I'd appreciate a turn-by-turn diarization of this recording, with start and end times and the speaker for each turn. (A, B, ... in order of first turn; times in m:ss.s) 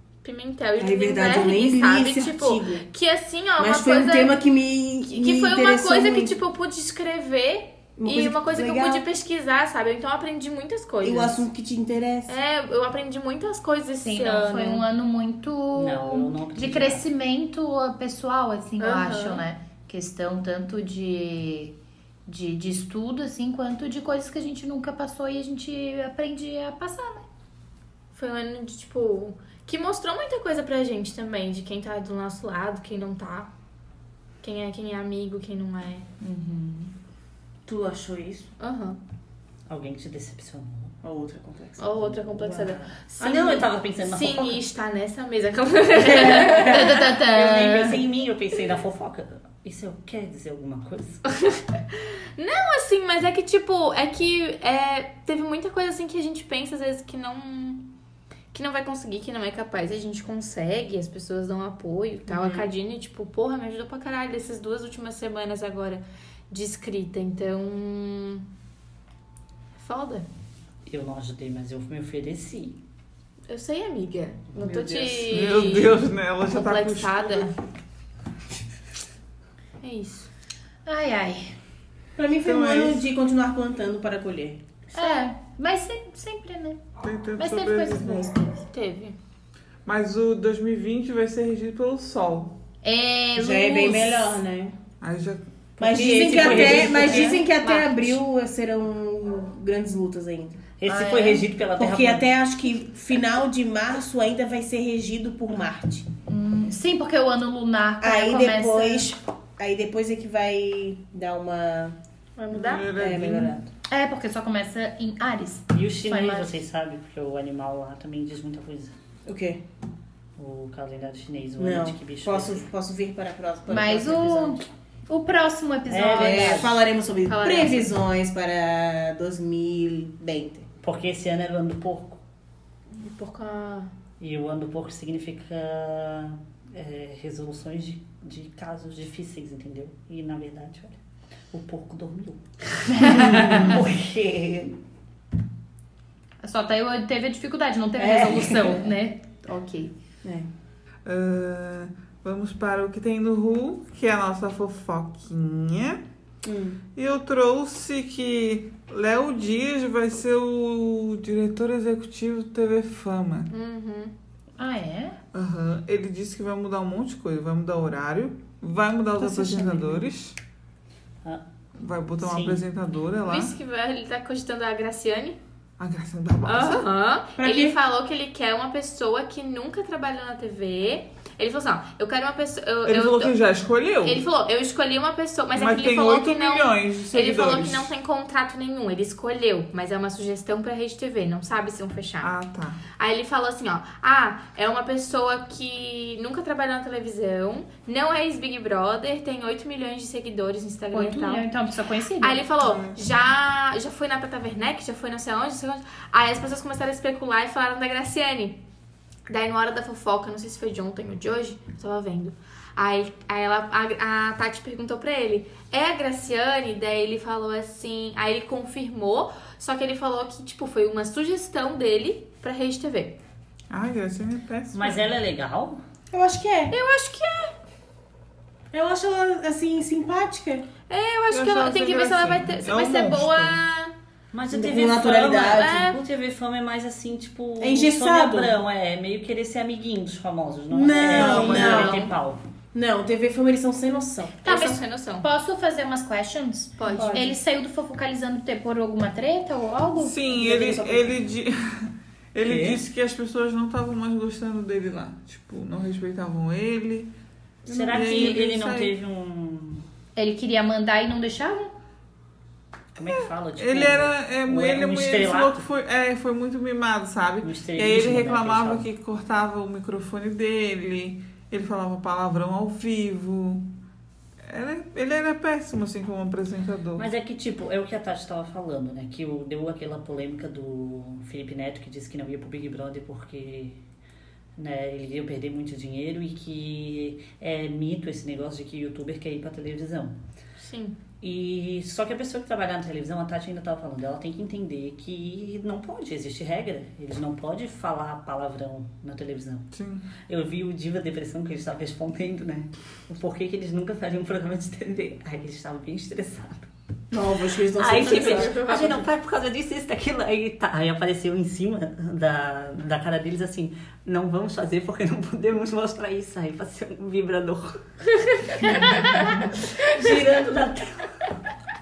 0:00.2-0:04.4 A
0:00.8-0:02.8 B
0:03.6-0:06.4 B
0:05.1-0:11.4 A
0:08.0-0:09.0 B
0:11.0-0:12.4 B
0:12.3-0:14.9 A
0:14.0-0:21.8 C
0:15.8-0:17.0 D
0:18.8-0:19.4 A
0:22.3-0:27.3 C
0:28.1-0:33.5 A
0:34.4-0:36.1 A
0:36.2-0:36.9 C
0:37.7-0:38.5 B
0:38.6-0:39.0 A
0:39.7-0:41.0 D
0:41.0-0:42.6 B
0:41.8-0:47.1 A
0:42.4-0:44.6 D
0:46.0-0:46.6 B
0:46.2-0:51.2 D
0:46.4-0:48.0 C
0:51.3-0:57.9 A
0:58.5-1:08.5 A
1:02.3-1:02.7 B
1:09.8-1:10.3 A
1:10.9-1:12.8 D
1:13.5-1:17.5 A
1:14.6-1:15.4 B
1:15.3-1:17.5 E
1:19.8-1:20.3 A
1:20.9-1:21.6 C
1:22.2-1:25.2 B
1:22.4-1:23.0 E
1:24.9-1:26.8 C
1:27.0-1:28.4 E
1:27.4-1:28.6 C
1:28.5-1:29.2 A
1:29.8-1:32.6 E
1:32.8-1:34.4 C
1:33.4-1:34.8 B
1:35.0-1:35.4 E
1:35.8-1:37.4 D
1:35.8-1:40.6 B
1:36.1-1:38.2 C
1:40.8-1:42.2 D
1:40.8-1:41.4 C
1:41.8-1:46.1 B
1:46.3-1:49.2 C
1:48.0-1:52.0 B
1:52.4-1:53.0 A
1:52.5-1:53.6 E
1:52.5-1:53.7 B
1:53.9-1:56.6 C
1:55.7-1:58.9 D
1:59.2-1:59.6 B
2:00.4-2:02.7 D
2:01.6-2:04.6 B
2:03.7-2:06.7 C
2:05.9-2:06.8 D
2:06.1-2:10.7 B
2:07.3-2:07.9 A
2:10.8-2:12.2 D
2:12.9-2:13.9 A
2:14.2-2:21.0 D
2:21.5-2:24.8 D
2:22.9-2:23.7 C
2:26.4-2:30.0 C
2:28.0-2:28.6 B
2:30.2-2:30.5 B
2:31.0-2:36.0 E
2:36.4-2:36.8 B
2:37.0-2:43.5 E
2:43.5-2:44.1 A
2:44.6-2:45.2 C
2:45.3-2:50.4 E
2:49.2-2:50.0 B
2:51.8-2:53.5 E
2:52.2-2:52.6 D
2:53.2-2:55.4 A
2:55.8-2:56.8 E
2:56.4-3:03.4 A
2:57.4-2:57.8 B
3:02.8-3:04.2 E
3:04.0-3:12.3 A
3:05.6-3:07.9 E
3:12.2-3:12.8 E
3:12.9-3:21.5 A
3:20.9-3:22.4 C
3:22.2-3:28.6 A
3:22.6-3:23.0 E
3:29.3-3:43.2 A
3:43.7-3:45.0 E
3:44.7-3:45.8 D
3:46.1-3:46.7 B
3:46.7-3:47.5 A
3:48.7-3:50.7 B
3:50.9-3:53.9 A
3:51.3-3:53.6 E
3:54.3-4:02.4 D
3:54.5-3:55.8 B
3:55.5-3:56.0 A
3:57.6-3:58.6 B
4:00.7-4:02.1 B
4:01.1-4:02.0 E
4:02.7-4:04.4 B
4:04.4-4:05.3 A
4:04.5-4:10.2 C
4:06.8-4:07.3 A
4:06.9-4:07.3 B
4:10.0-4:17.1 E
4:10.3-4:11.2 B
4:12.4-4:12.8 D
4:17.7-4:19.8 D
4:17.7-4:18.0 B
4:17.9-4:18.9 E
4:20.2-4:21.8 C
4:23.0-4:25.6 D
4:23.0-4:33.7 E
4:27.4-4:28.9 D
4:34.5-4:37.1 E
4:37.0-4:43.8 D
4:44.6-4:50.1 D
4:50.6-4:51.0 A
4:51.2-4:59.7 D
4:59.7-5:00.1 E
5:00.3-5:06.7 D
5:07.1-5:08.7 B
5:07.8-5:17.8 D
5:08.2-5:09.0 A
5:18.2-5:19.4 A
5:18.6-5:21.3 D